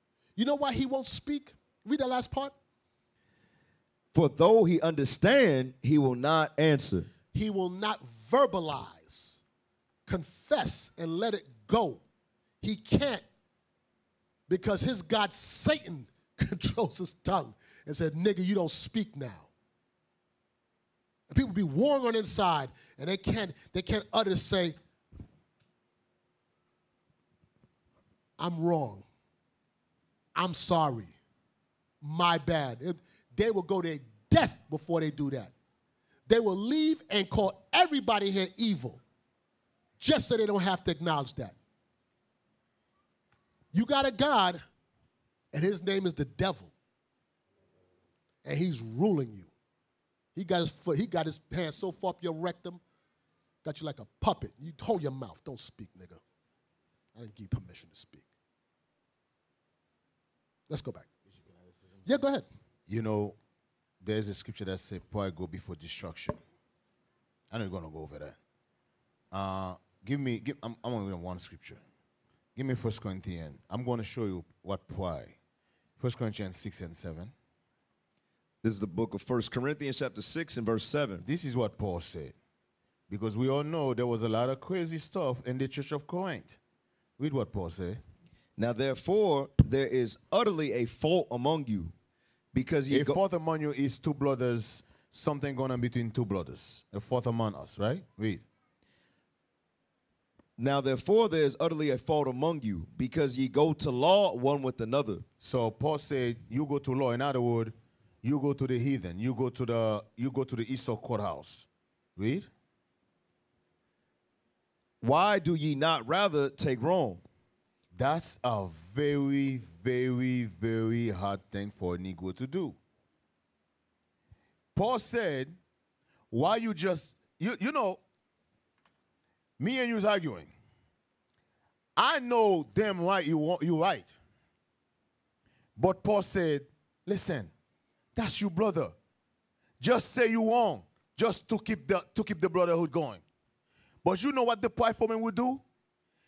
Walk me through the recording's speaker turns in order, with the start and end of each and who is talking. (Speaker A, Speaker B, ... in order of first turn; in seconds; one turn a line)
Speaker A: 0.3-2.5
Speaker B: 4.1-7.1
Speaker A: 7.3-9.4
Speaker A: 10.1-12.0
Speaker A: 12.6-13.2
Speaker A: 14.5-19.5
Speaker A: 21.3-24.8
Speaker A: 28.4-29.0
Speaker A: 30.3-31.1
Speaker A: 32.0-35.5
Speaker A: 36.3-39.0
Speaker A: 40.0-41.5
Speaker A: 43.7-44.6
Speaker A: 45.5-46.7
Speaker A: 48.4-49.5
Speaker A: 50.3-52.8
Speaker A: 53.6-56.2
Speaker A: 57.1-58.2
Speaker A: 60.7-61.0
Speaker A: 62.0-62.5
Speaker C: 62.9-63.4
Speaker C: 64.0-66.4
Speaker C: 67.5-68.4
Speaker C: 69.3-71.8
Speaker C: 72.5-75.4
Speaker C: 76.0-77.3
Speaker B: 78.6-81.2
Speaker C: 81.2-82.3
Speaker C: 83.1-86.6
Speaker C: 87.2-88.0
Speaker B: 88.6-91.9
Speaker B: 92.5-93.2
Speaker C: 92.9-98.4
Speaker B: 100.6-105.2
Speaker C: 105.4-112.5
Speaker B: 115.0-117.2
Speaker C: 117.9-122.8
Speaker C: 124.7-125.6
Speaker C: 126.3-128.0
Speaker C: 129.6-130.5
Speaker C: 131.9-134.1
Speaker C: 135.8-137.5
Speaker C: 138.1-138.9
Speaker C: 139.8-143.2
Speaker C: 144.0-145.6